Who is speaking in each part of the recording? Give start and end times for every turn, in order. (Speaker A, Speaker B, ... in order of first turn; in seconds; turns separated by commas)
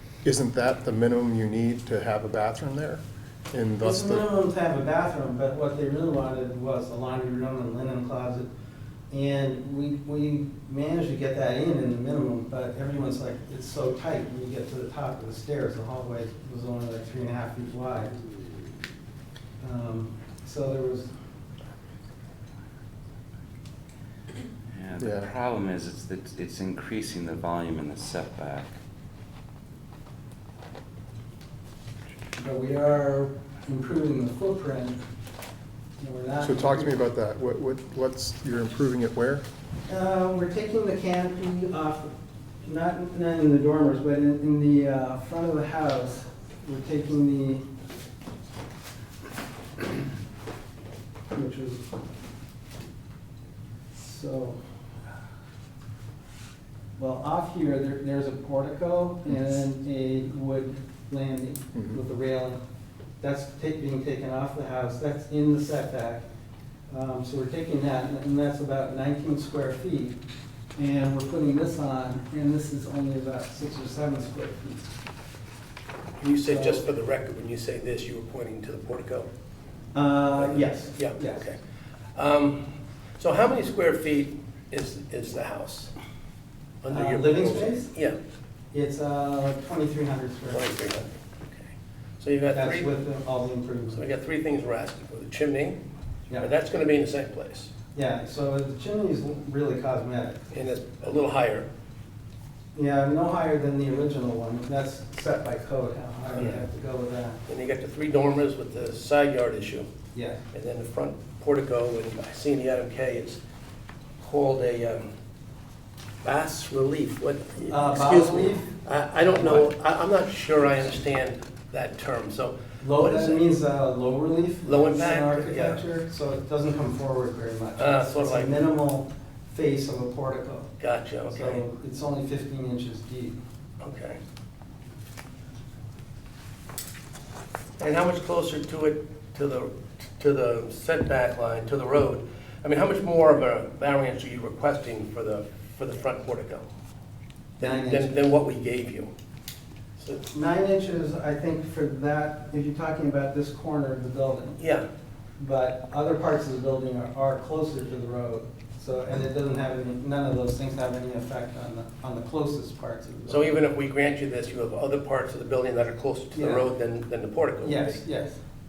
Speaker A: 0.2-4.3, Speaker B: 3.8-8.5, Speaker B: 9.1-18.1, Speaker B: 19.6-21.1, Speaker C: 24.7-28.7, Speaker A: 25.0-25.3, Speaker B: 32.4-35.0, Speaker B: 36.0-37.0, Speaker A: 36.4-39.5, Speaker B: 39.9-42.1, Speaker B: 42.6-47.6, Speaker B: 51.3-51.9, Speaker B: 53.9-54.6, Speaker B: 57.0-62.6, Speaker B: 63.2-66.2, Speaker B: 66.9-70.2, Speaker B: 70.8-74.9, Speaker D: 76.2-79.3, Speaker B: 76.5-76.8, Speaker B: 79.9-81.4, Speaker D: 80.4-81.6, Speaker D: 82.1-85.9, Speaker D: 86.8-88.2, Speaker B: 86.9-87.9, Speaker B: 88.7-90.9, Speaker D: 90.5-91.6, Speaker D: 92.2-93.0, Speaker B: 92.5-94.0, Speaker D: 93.9-95.8, Speaker D: 96.3-97.7, Speaker B: 97.9-100.4, Speaker D: 100.5-101.7, Speaker B: 102.7-107.4, Speaker D: 107.5-109.9, Speaker B: 110.1-110.4, Speaker D: 110.5-113.4, Speaker D: 114.2-115.1, Speaker D: 116.2-123.5, Speaker B: 117.7-118.7, Speaker B: 119.3-119.7, Speaker B: 122.8-130.7, Speaker D: 124.6-125.9, Speaker D: 127.8-128.6, Speaker D: 130.8-131.6, Speaker B: 131.3-133.4, Speaker D: 133.8-134.2, Speaker D: 137.8-146.7, Speaker D: 147.6-149.1, Speaker B: 147.6-148.2, Speaker D: 150.0-150.3, Speaker B: 150.3-154.6, Speaker D: 154.6-154.9, Speaker B: 155.4-163.5, Speaker D: 163.3-168.0, Speaker B: 166.3-166.7, Speaker B: 167.6-168.4